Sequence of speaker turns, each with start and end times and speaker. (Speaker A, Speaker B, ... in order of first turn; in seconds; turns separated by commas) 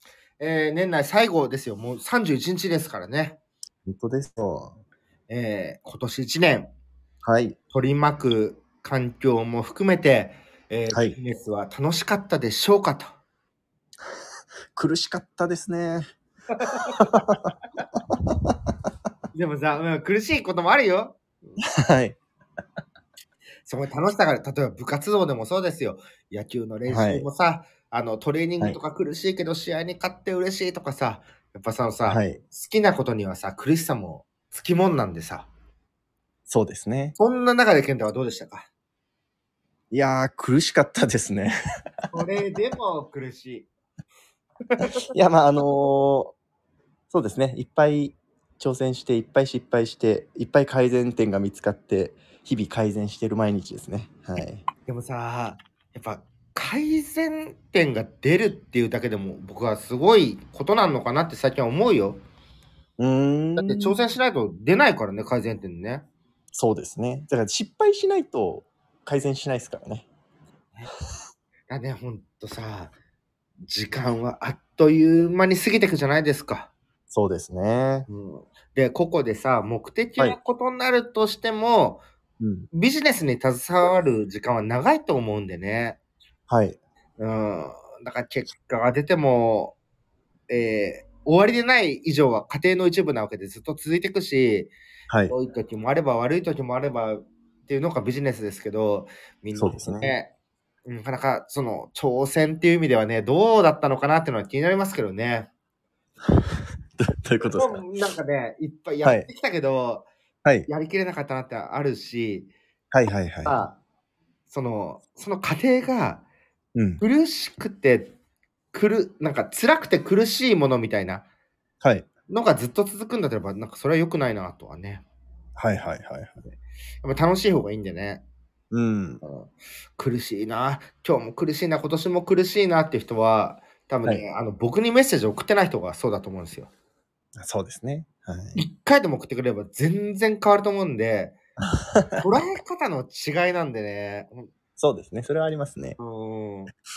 Speaker A: 0.4-3.4, Speaker B: 3.9-4.8, Speaker A: 5.3-6.7, Speaker B: 7.2-7.6, Speaker A: 7.7-13.1, Speaker B: 14.8-16.1, Speaker A: 16.5-17.2, Speaker B: 17.0-17.5, Speaker B: 18.3-18.6, Speaker A: 19.3-21.6, Speaker B: 21.6-22.2, Speaker A: 23.7-35.5, Speaker B: 26.9-27.3, Speaker B: 32.1-32.4, Speaker B: 36.5-37.2, Speaker A: 37.2-38.7, Speaker B: 39.9-41.5, Speaker A: 42.1-43.7, Speaker A: 44.7-45.1, Speaker B: 45.1-46.3, Speaker B: 47.1-54.6, Speaker A: 54.8-62.2, Speaker B: 63.0-64.0, Speaker A: 63.6-66.1, Speaker B: 66.5-70.1, Speaker A: 71.7-72.9, Speaker A: 73.7-76.7, Speaker B: 77.1-78.1, Speaker A: 78.1-82.0, Speaker B: 82.4-82.7, Speaker A: 82.7-86.0, Speaker B: 86.5-86.8, Speaker A: 87.2-89.8, Speaker A: 90.5-94.7, Speaker B: 95.1-95.3, Speaker A: 95.3-100.3, Speaker B: 99.5-100.1, Speaker A: 100.9-105.5, Speaker B: 106.3-107.8, Speaker A: 107.4-110.1, Speaker A: 110.7-112.5, Speaker B: 112.9-113.6, Speaker A: 113.4-113.8, Speaker A: 114.5-116.2, Speaker B: 116.8-117.0, Speaker A: 117.0-118.1, Speaker A: 118.7-121.3, Speaker B: 121.8-122.1, Speaker A: 122.3-125.0, Speaker B: 125.6-126.4, Speaker A: 127.0-128.2, Speaker B: 128.7-129.2, Speaker A: 129.2-136.7, Speaker B: 137.4-138.6, Speaker A: 138.6-141.4, Speaker B: 141.7-142.2, Speaker A: 142.2-144.5, Speaker B: 144.8-146.0, Speaker A: 146.0-146.7